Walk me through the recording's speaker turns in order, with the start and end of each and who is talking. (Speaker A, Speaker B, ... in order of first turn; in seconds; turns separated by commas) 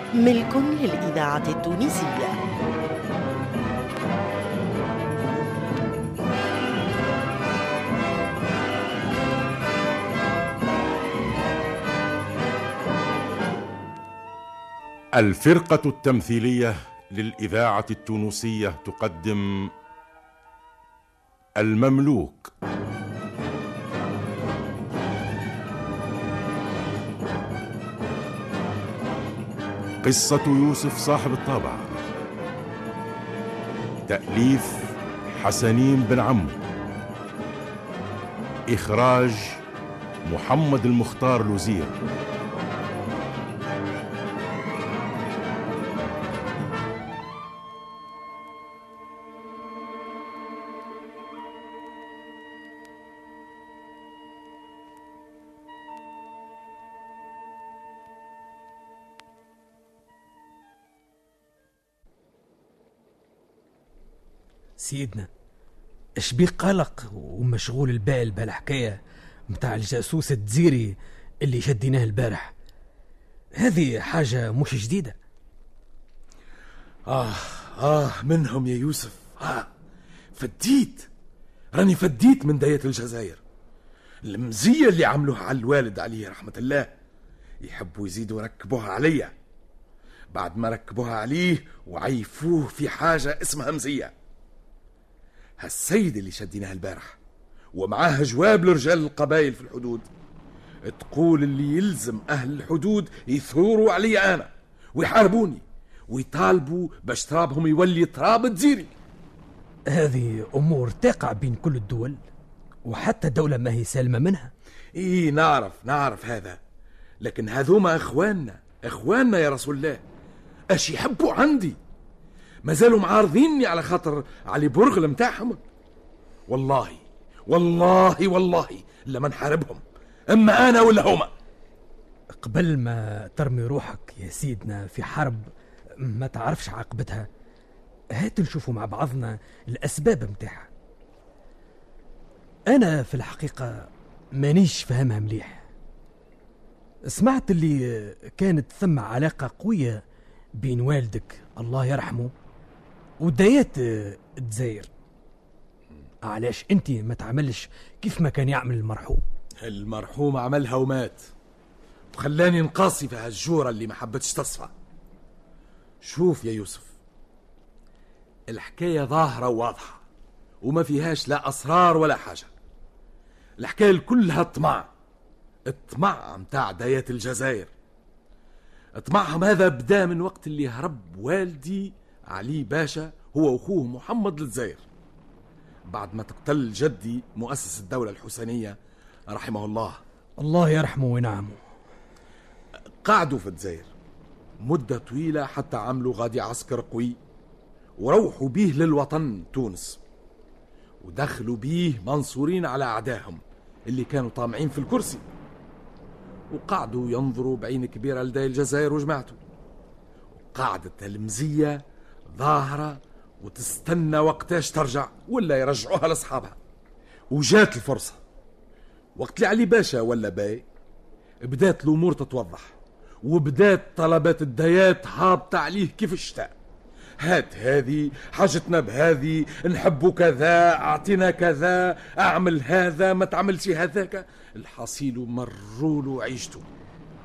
Speaker A: 0.1-2.4, Speaker B: 15.2-19.7, Speaker B: 21.6-22.5, Speaker B: 30.0-31.9, Speaker B: 34.1-36.5, Speaker B: 38.7-39.6, Speaker B: 40.3-41.9, Speaker C: 64.8-65.3, Speaker C: 66.2-69.0, Speaker C: 69.5-72.5, Speaker C: 73.6-75.2, Speaker D: 77.1-79.7, Speaker D: 80.4-81.1, Speaker D: 81.8-83.4, Speaker D: 84.2-86.9, Speaker D: 87.6-89.3, Speaker D: 90.3-94.1, Speaker D: 95.6-97.2, Speaker D: 97.7-100.1, Speaker D: 100.9-108.9, Speaker C: 109.9-112.2, Speaker C: 112.8-114.5, Speaker D: 115.0-116.6, Speaker D: 117.2-120.0, Speaker D: 120.7-121.8, Speaker D: 122.7-125.6, Speaker D: 126.5-131.3, Speaker C: 132.4-135.5, Speaker C: 136.0-137.3, Speaker C: 138.2-140.7, Speaker C: 142.7-145.7, Speaker C: 147.1-150.0, Speaker C: 150.6-152.3, Speaker C: 153.2-154.9, Speaker C: 156.2-159.2, Speaker D: 159.6-161.3, Speaker D: 162.1-164.7, Speaker D: 166.0-166.9, Speaker D: 168.5-170.0, Speaker D: 170.6-172.5, Speaker D: 173.6-174.9, Speaker D: 175.7-177.7, Speaker D: 179.0-184.8, Speaker D: 185.9-188.8, Speaker D: 189.3-190.0, Speaker C: 190.4-191.6, Speaker D: 193.0-193.9, Speaker D: 194.6-197.2, Speaker D: 198.0-200.0, Speaker D: 201.0-205.2, Speaker D: 206.5-209.4, Speaker D: 210.5-216.6, Speaker D: 217.3-218.2, Speaker D: 219.2-220.7, Speaker D: 221.4-226.5, Speaker D: 227.2-236.7